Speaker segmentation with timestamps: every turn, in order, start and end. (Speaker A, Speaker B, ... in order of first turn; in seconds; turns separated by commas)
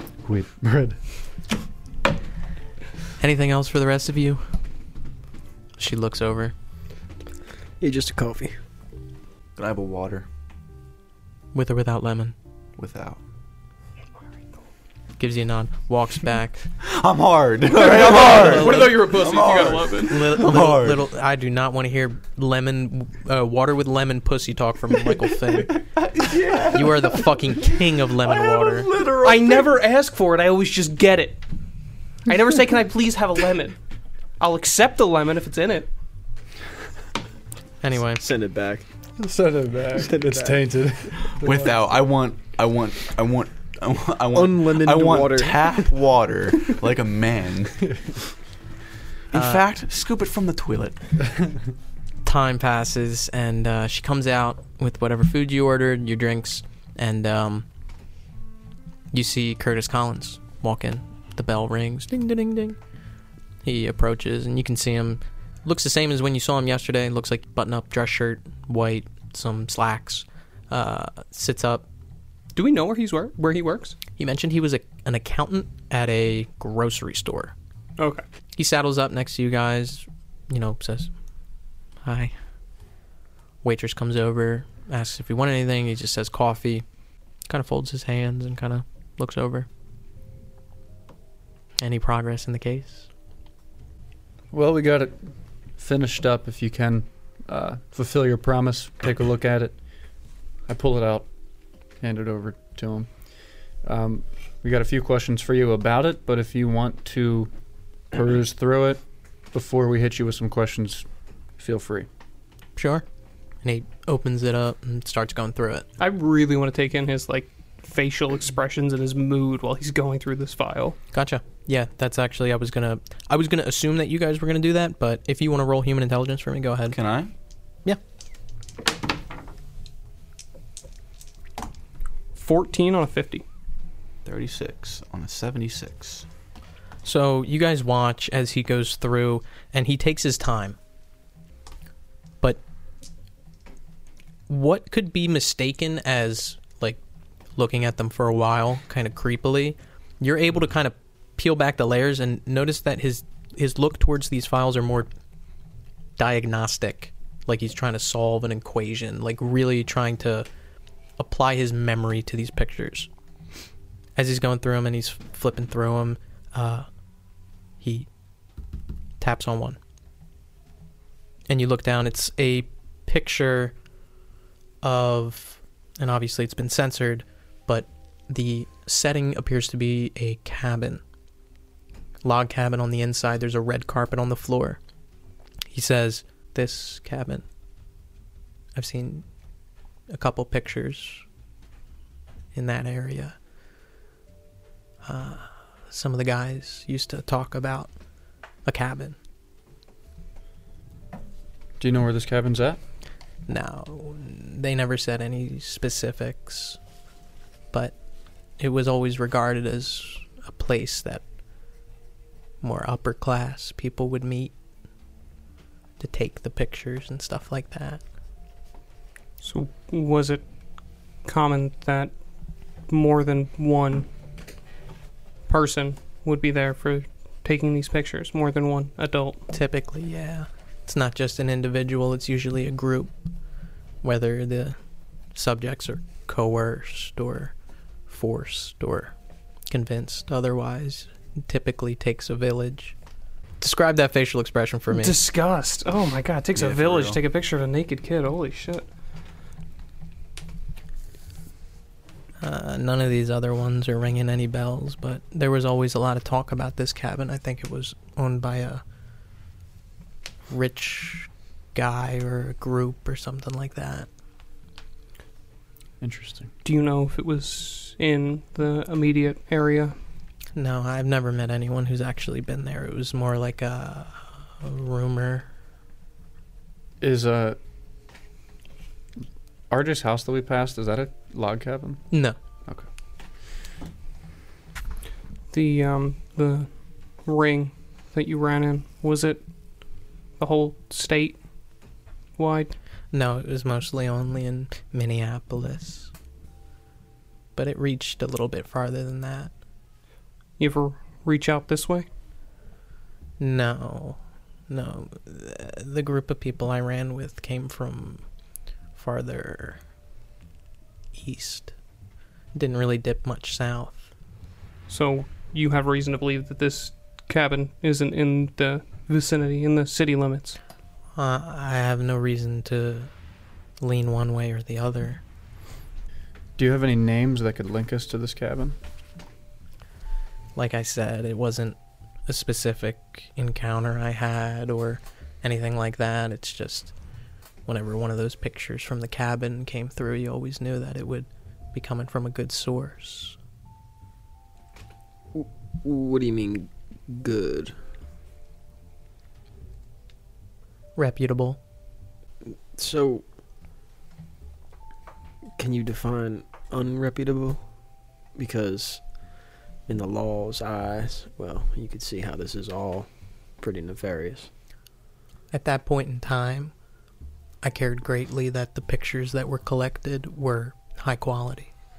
Speaker A: 0.2-1.0, Speaker B: 3.2-4.4, Speaker B: 5.8-6.5, Speaker C: 7.8-8.5, Speaker D: 9.6-10.3, Speaker B: 11.5-12.3, Speaker D: 12.8-13.2, Speaker B: 15.2-16.6, Speaker D: 16.8-21.0, Speaker E: 17.7-20.5, Speaker B: 18.3-19.0, Speaker B: 20.0-25.8, Speaker D: 25.6-27.3, Speaker B: 26.7-28.9, Speaker D: 28.2-29.7, Speaker E: 29.2-31.4, Speaker E: 32.2-33.8, Speaker E: 34.4-35.9, Speaker B: 37.8-38.2, Speaker C: 38.1-38.8, Speaker A: 39.2-41.8, Speaker C: 40.0-40.6, Speaker D: 41.3-48.0, Speaker C: 44.3-45.9, Speaker D: 49.3-51.0, Speaker B: 49.3-49.6, Speaker B: 52.2-57.6, Speaker B: 59.1-62.8, Speaker B: 63.6-71.8, Speaker E: 72.5-74.0, Speaker B: 74.2-77.5, Speaker E: 78.0-78.2, Speaker B: 78.5-81.1, Speaker B: 82.0-82.3, Speaker B: 83.6-86.8, Speaker B: 87.5-89.7, Speaker B: 91.8-93.1, Speaker A: 94.5-95.2, Speaker A: 95.8-99.8, Speaker A: 100.7-101.3, Speaker A: 102.0-103.2, Speaker A: 103.8-107.5, Speaker A: 108.1-109.0, Speaker A: 109.5-111.0, Speaker A: 111.6-112.1, Speaker B: 112.8-113.0, Speaker B: 113.6-115.8, Speaker E: 116.0-121.0, Speaker B: 121.1-127.0, Speaker D: 126.9-127.3, Speaker E: 132.3-133.4, Speaker D: 134.2-136.2, Speaker B: 137.0-140.8, Speaker B: 144.5-147.0, Speaker B: 147.6-155.1, Speaker B: 156.2-160.4, Speaker B: 161.2-163.1, Speaker B: 164.2-166.9, Speaker B: 167.8-168.1, Speaker B: 169.2-169.8, Speaker B: 171.5-173.7, Speaker B: 174.8-181.0, Speaker B: 182.2-184.8, Speaker B: 185.7-187.4, Speaker B: 188.7-189.2, Speaker B: 190.1-191.2, Speaker B: 192.5-193.3, Speaker B: 195.0-197.9, Speaker B: 198.6-199.2, Speaker A: 201.8-202.8, Speaker B: 203.5-206.8, Speaker B: 208.6-211.2, Speaker B: 212.6-214.5, Speaker B: 216.0-218.0, Speaker E: 219.4-220.4, Speaker E: 221.2-222.1, Speaker E: 222.9-224.1, Speaker E: 225.5-229.4, Speaker B: 229.5-233.1, Speaker B: 234.0-234.8, Speaker B: 235.3-237.5, Speaker B: 238.1-239.1, Speaker B: 239.7-242.9, Speaker B: 243.6-245.2, Speaker E: 244.9-248.8, Speaker D: 246.5-247.2, Speaker B: 252.4-258.8, Speaker B: 260.5-264.1, Speaker A: 266.0-266.5, Speaker E: 266.6-269.9, Speaker B: 270.5-275.5, Speaker A: 277.0-277.6, Speaker A: 279.7-282.1, Speaker B: 282.1-282.4, Speaker E: 285.5-286.7, Speaker E: 287.2-289.4, Speaker E: 290.4-291.4, Speaker E: 292.4-292.7, Speaker B: 293.1-296.1, Speaker B: 297.5-299.5, Speaker E: 300.6-302.1, Speaker B: 303.4-308.2, Speaker B: 308.9-309.8, Speaker B: 311.1-311.7, Speaker B: 312.5-314.1, Speaker E: 314.9-320.6, Speaker B: 321.1-323.1, Speaker B: 323.8-325.2, Speaker A: 326.6-328.8, Speaker B: 330.6-331.8, Speaker B: 332.3-336.9, Speaker B: 337.6-343.4, Speaker C: 345.3-347.7, Speaker B: 350.9-351.6, Speaker C: 352.7-353.2, Speaker C: 355.6-357.7, Speaker C: 358.3-359.1, Speaker C: 359.9-364.5, Speaker B: 365.5-366.7, Speaker B: 367.6-371.7